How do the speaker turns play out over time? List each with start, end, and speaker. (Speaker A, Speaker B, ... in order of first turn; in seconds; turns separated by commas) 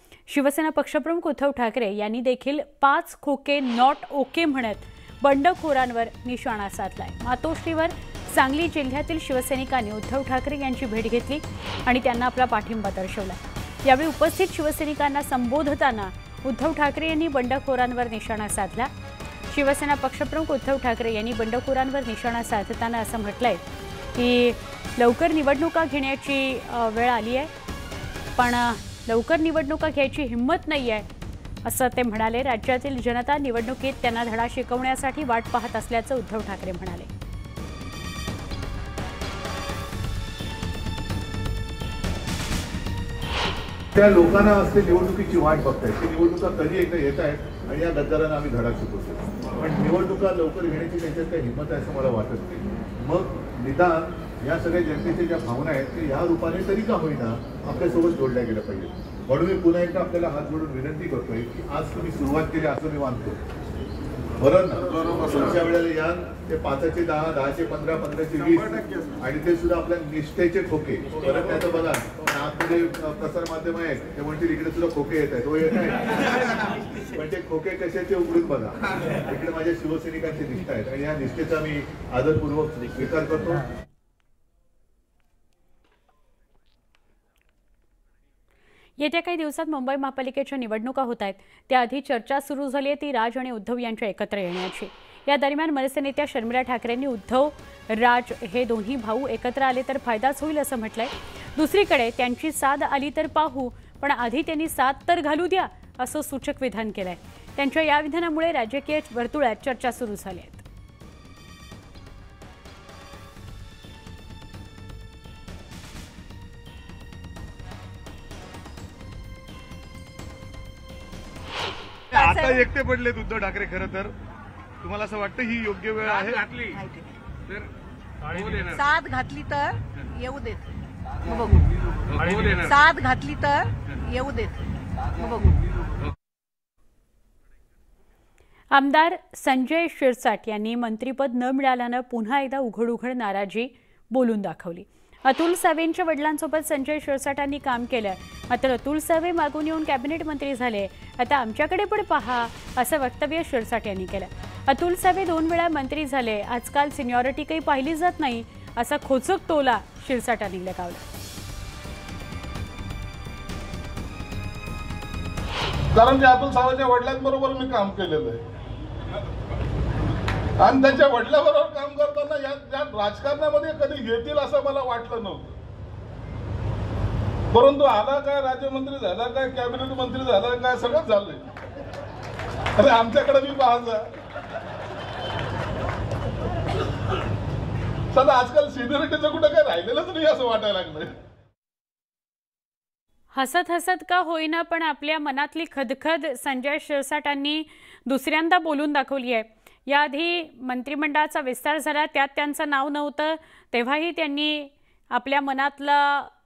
Speaker A: 0.3-18.9, Speaker A: 19.5-23.6, Speaker A: 24.1-27.5, Speaker A: 28.4-31.1, Speaker A: 31.6-37.1, Speaker B: 44.0-63.4, Speaker B: 64.4-76.3, Speaker B: 77.1-83.7, Speaker A: 89.0-110.6, Speaker C: 122.1-124.1, Speaker D: 122.1-122.7, Speaker C: 124.8-126.6, Speaker D: 126.7-127.0, Speaker D: 128.6-130.6, Speaker D: 131.2-131.7, Speaker D: 132.4-134.5, Speaker D: 135.2-135.6, Speaker A: 138.7-161.0, Speaker E: 165.9-168.4, Speaker E: 170.6-175.6, Speaker E: 177.5-181.4, Speaker E: 182.8-184.1, Speaker E: 188.1-191.1, Speaker A: 193.3-206.3